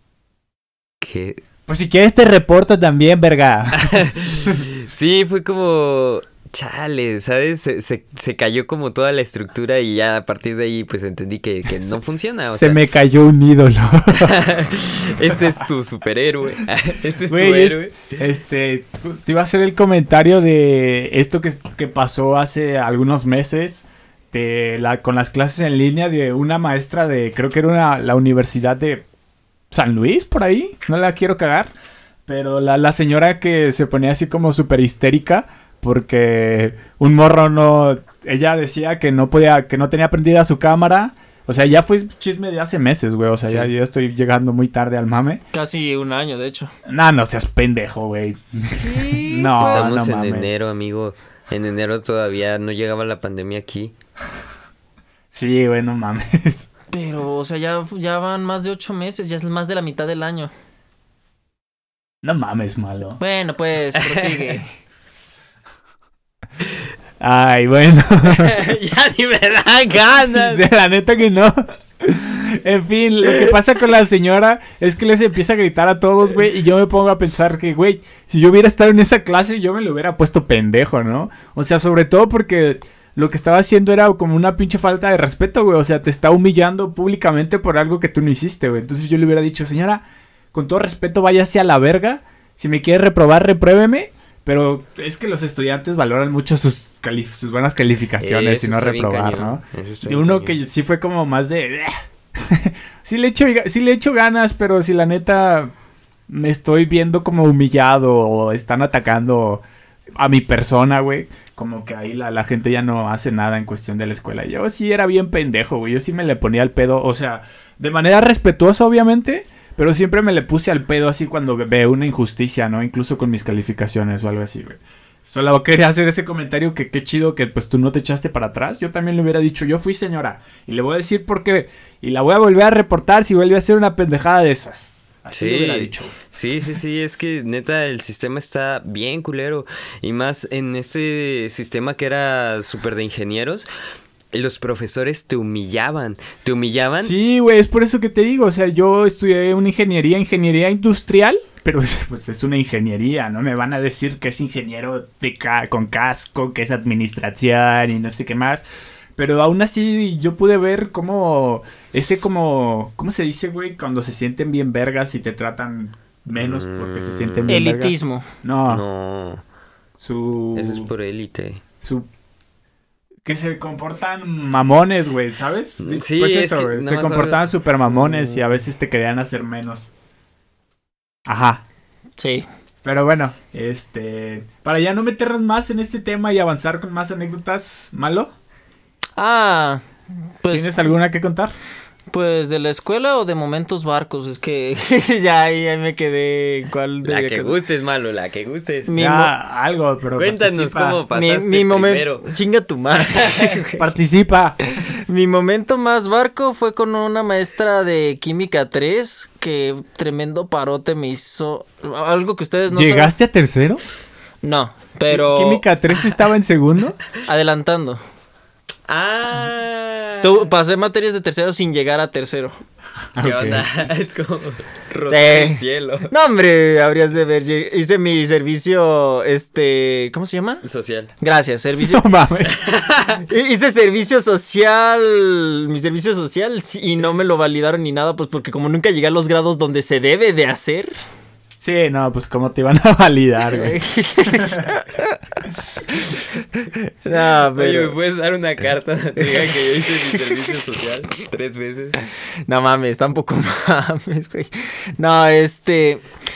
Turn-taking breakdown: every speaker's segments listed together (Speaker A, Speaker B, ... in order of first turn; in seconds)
Speaker A: 1.0-1.4, 3.8-12.8, 14.2-18.0, 49.6-53.9, 63.9-64.5, 68.2-70.6, 73.3-73.5, 98.2-100.6, 135.3-143.7, 144.3-147.1, 166.3-167.7, 168.7-169.4, 170.5-171.6, 175.8-178.4, 197.0-198.9, 200.2-202.2, 203.1-203.6, 218.9-220.4, 223.2-226.1, 230.6-231.1, 232.5-233.2, 247.5-252.0
Speaker B: 1.7-4.6, 12.5-14.4, 17.2-29.0, 29.7-31.7, 32.3-45.4, 46.9-50.5, 55.3-56.7, 62.2-63.2, 67.2-68.6, 70.3-105.7, 106.3-109.6, 110.2-136.1, 147.0-158.6, 159.2-168.8, 170.0-170.9, 171.8-172.1, 173.2-179.9, 181.3-181.6, 182.8-188.3, 190.5-191.5, 199.0-201.0, 203.8-204.6, 212.7-213.8, 215.1-217.0, 223.1-223.7, 231.9-232.6, 241.6-244.6, 245.9-246.2
Speaker C: 45.5-46.7, 48.6-49.9, 56.9-60.5, 63.2-64.7, 167.5-168.2, 182.2-182.4, 189.2-189.8, 190.4-190.9, 192.1-197.6, 198.9-199.3, 201.1-203.8, 205.1-213.1, 214.4-216.2, 217.2-218.0, 220.2-222.6, 225.1-230.6, 231.2-232.0, 233.2-240.9, 243.5-245.2, 247.0-247.9, 249.3-250.5, 252.5-256.0